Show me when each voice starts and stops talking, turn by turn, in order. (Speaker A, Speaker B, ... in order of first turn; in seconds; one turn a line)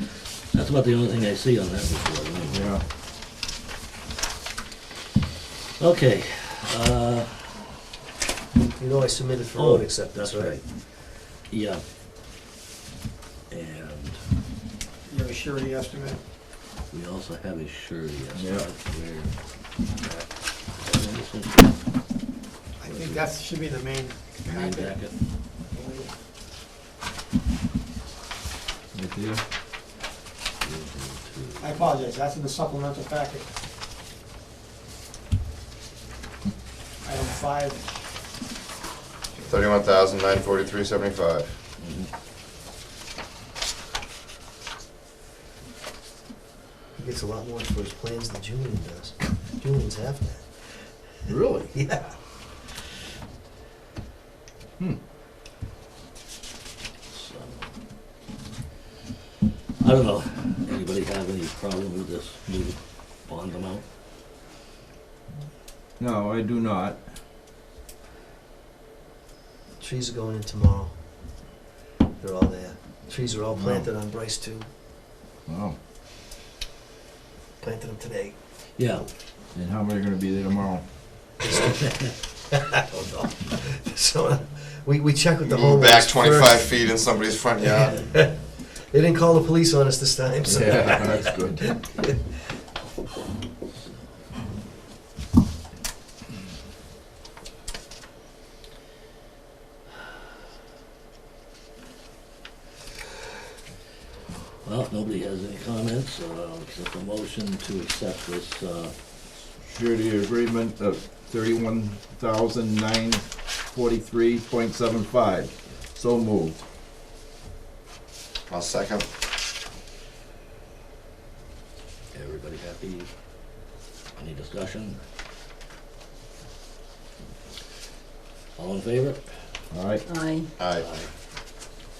Speaker A: 0.5-2.8
Speaker B: 2.5-2.8
Speaker A: 5.8-7.6
Speaker C: 8.5-10.5
Speaker A: 9.6-10.6
Speaker A: 11.5-11.8
Speaker A: 13.5-14.2
Speaker D: 15.1-16.2
Speaker A: 16.9-21.8
Speaker B: 18.3-18.7
Speaker D: 22.8-25.0
Speaker A: 22.8-23.3
Speaker A: 24.4-25.1
Speaker D: 25.7-26.1
Speaker B: 28.9-29.4
Speaker A: 30.6-31.9
Speaker D: 31.6-33.5
Speaker D: 37.0-37.8
Speaker E: 39.4-41.5
Speaker A: 41.8-42.1
Speaker C: 47.0-50.4
Speaker B: 51.2-51.7
Speaker C: 51.7-52.1
Speaker A: 57.1-57.7
Speaker A: 59.8-63.8
Speaker B: 66.0-67.0
Speaker C: 69.8-70.9
Speaker C: 72.2-74.7
Speaker B: 73.5-73.9
Speaker B: 75.5-75.8
Speaker C: 77.6-78.3
Speaker A: 78.8-79.0
Speaker B: 79.5-80.8
Speaker C: 81.4-86.6
Speaker E: 85.4-88.0
Speaker C: 87.6-92.2
Speaker B: 90.4-91.8
Speaker A: 104.6-108.9
Speaker B: 109.6-116.6
Speaker E: 118.5-119.0
Speaker A: 122.1-123.1
Speaker A: 124.2-125.0
Speaker A: 128.6-129.2
Speaker B: 129.7-130.1
Speaker E: 130.6-130.8
Speaker A: 130.7-131.1